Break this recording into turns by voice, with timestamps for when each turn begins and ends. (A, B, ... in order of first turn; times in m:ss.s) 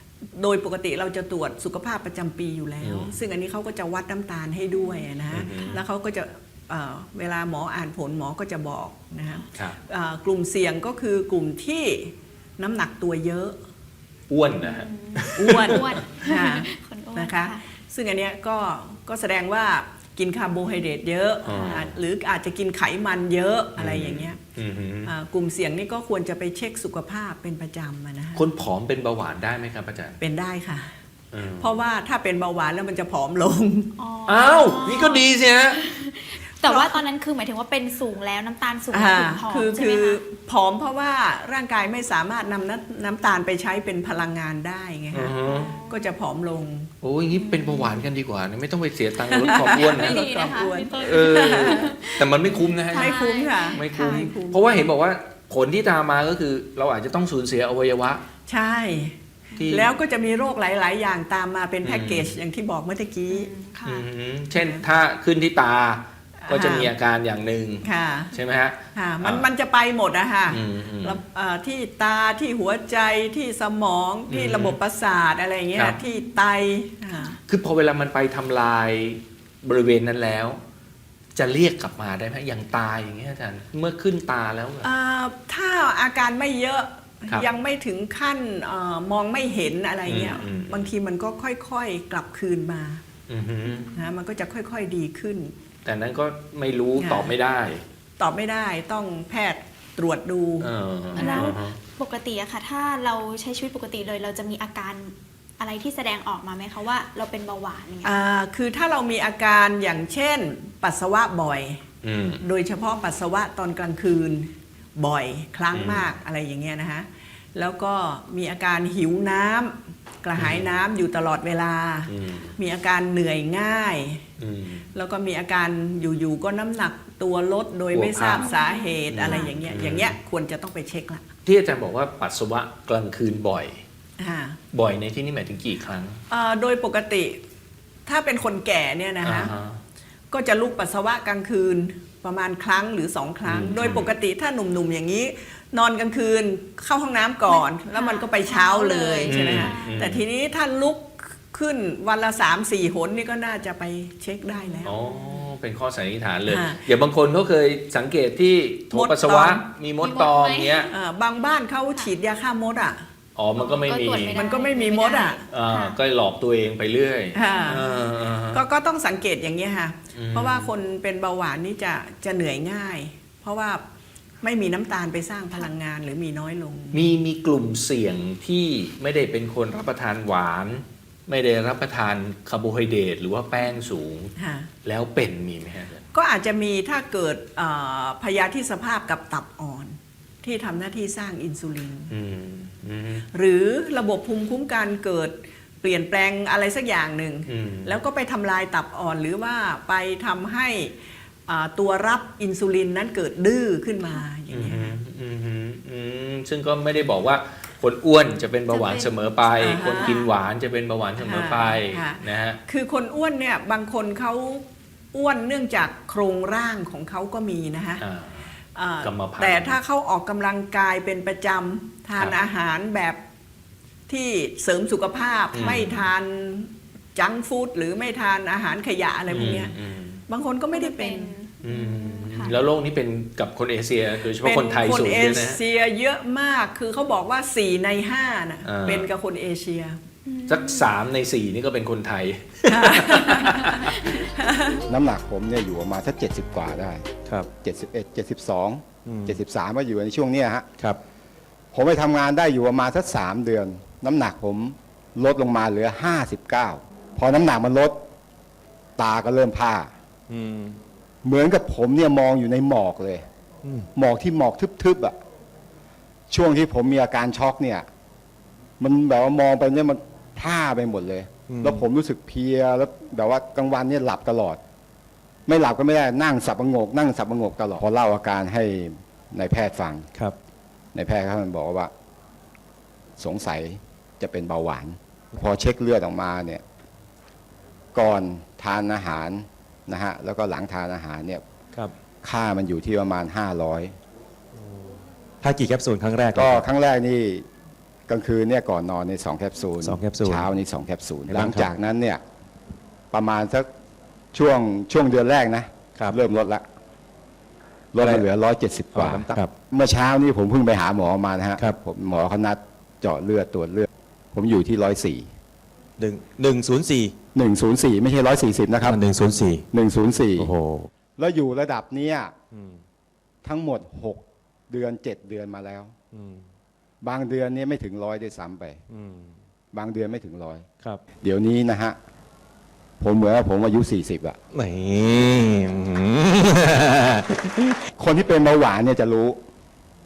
0:00.4-0:13.5 A
0:02.8-0:03.1 B
0:04.7-0:05.8 C
0:05.3-0:05.8 B
0:14.3-0:15.8 B
0:14.6-0:17.6 C
0:15.4-0:24.4 A
0:21.4-0:21.9 B
0:21.5-0:21.9 C
0:23.8-0:25.1 B
0:25.0-0:28.4 A
0:28.3-0:30.2 B
0:30.2-0:30.9 A
0:31.3-0:31.8 B
0:31.6-0:33.9 A
0:34.0-0:40.2 C
0:34.3-0:35.8 B
0:36.6-0:37.0 A
0:38.9-0:46.9 A
0:45.1-0:45.7 B
0:45.4-0:46.1 C
0:47.0-0:50.3 B
0:47.3-0:48.0 C
0:49.3-0:51.9 A
0:49.4-0:54.3 C
0:51.0-0:58.2 B
0:52.9-0:54.8 A
0:58.5-0:59.2 A
0:59.6-0:59.9 B
0:59.7-1:03.5 A
1:01.8-1:02.4 B
1:03.3-1:04.0 C
1:03.8-1:09.4 B
1:06.4-1:06.9 A
1:07.8-1:08.3 A
1:08.9-1:17.3 A
1:10.5-1:11.2 B
1:14.3-1:14.8 B
1:17.1-1:17.4 C
1:17.5-1:20.6 B
1:21.3-1:24.9 B
1:24.8-1:33.0 A
1:30.0-1:30.9 B
1:33.3-1:33.9 B
1:33.6-1:34.0 C
1:33.9-1:35.5 A
1:35.8-1:37.8 B
1:37.0-1:37.3 A
1:38.2-1:41.6 A
1:40.6-1:41.8 B
1:41.1-1:48.2 C
1:48.0-1:51.8 A
1:52.0-1:52.4 B
1:52.4-2:04.2 A
1:55.7-1:56.1 B
2:00.4-2:00.6 B
2:02.1-2:02.5 B
2:04.4-2:04.8 B
2:04.9-2:11.2 A
2:07.9-2:08.5 B
2:08.4-2:09.6 C
2:09.1-2:10.2 B
2:11.4-2:13.8 B
2:14.2-2:14.6 A
2:14.7-2:16.2 B
2:16.3-2:17.3 A
2:18.0-2:19.5 A
2:19.2-2:19.8 B
2:20.3-2:35.0 A
2:23.4-2:24.1 B
2:27.4-2:30.1 C
2:29.2-2:30.2 B
2:34.5-2:35.4 C
2:34.8-2:40.9 B
2:36.5-2:36.8 A
2:38.9-2:39.6 A
2:40.0-2:40.9 C
2:40.9-2:43.0 A
2:43.4-2:44.5 B
2:43.5-2:46.0 C
2:44.3-2:45.4 A
2:45.5-2:48.6 B
2:47.3-2:47.8 A
2:47.4-2:48.0 C
2:48.5-2:53.8 A
2:50.1-2:50.7 B
2:54.4-2:57.1 A
2:56.9-3:04.3 B
3:04.4-3:04.7 A
3:04.8-3:06.0 B
3:06.1-3:12.1 A
3:12.1-3:13.2 B
3:13.3-3:20.9 A
3:17.5-3:18.0 B
3:21.5-3:25.0 A
3:24.5-3:32.6 B
3:28.7-3:29.1 C
3:29.6-3:30.3 A
3:31.2-3:38.0 A
3:38.0-3:38.5 B
3:38.7-3:43.2 A
3:39.0-3:39.8 B
3:44.1-3:49.7 A
3:45.5-3:46.1 B
3:49.3-3:50.2 B
3:50.3-3:51.4 A
3:50.7-3:52.6 C
3:51.6-3:55.6 B
3:54.4-4:00.0 A
3:58.6-3:59.1 B
4:00.2-4:01.0 C
4:00.5-4:03.9 B
4:02.7-4:04.8 A
4:04.9-4:07.0 D
4:07.6-4:10.6 D
4:09.0-4:09.4 E
4:11.7-4:18.0 D
4:19.0-4:19.9 D
4:20.3-4:20.8 E
4:21.2-4:23.2 D
4:23.9-4:25.2 D
4:26.3-4:27.9 D
4:28.8-4:34.6 D
4:31.5-4:31.8 E
4:35.5-4:40.1 D
4:40.9-4:41.9 D
4:43.2-4:46.6 D
4:47.9-4:51.4 D
4:52.2-4:53.9 D
4:54.6-4:56.6 E
4:56.3-4:57.4 D
4:58.1-5:02.2 D
4:59.8-5:00.5 E
5:01.3-5:01.7 E
5:03.1-5:03.7 D
5:04.3-5:06.6 D
5:07.9-5:15.3 D
5:08.9-5:09.5 E
5:16.0-5:17.1 E
5:17.3-5:19.0 D
5:18.8-5:19.6 E
5:19.7-5:20.5 D
5:20.4-5:20.9 E
5:21.2-5:22.3 D
5:22.5-5:22.8 E
5:23.4-5:25.9 D
5:26.1-5:26.4 E
5:27.0-5:28.8 D
5:28.9-5:29.4 E
5:29.7-5:30.6 D
5:31.2-5:32.0 D
5:33.0-5:34.4 D
5:34.5-5:37.8 E
5:38.0-5:39.4 D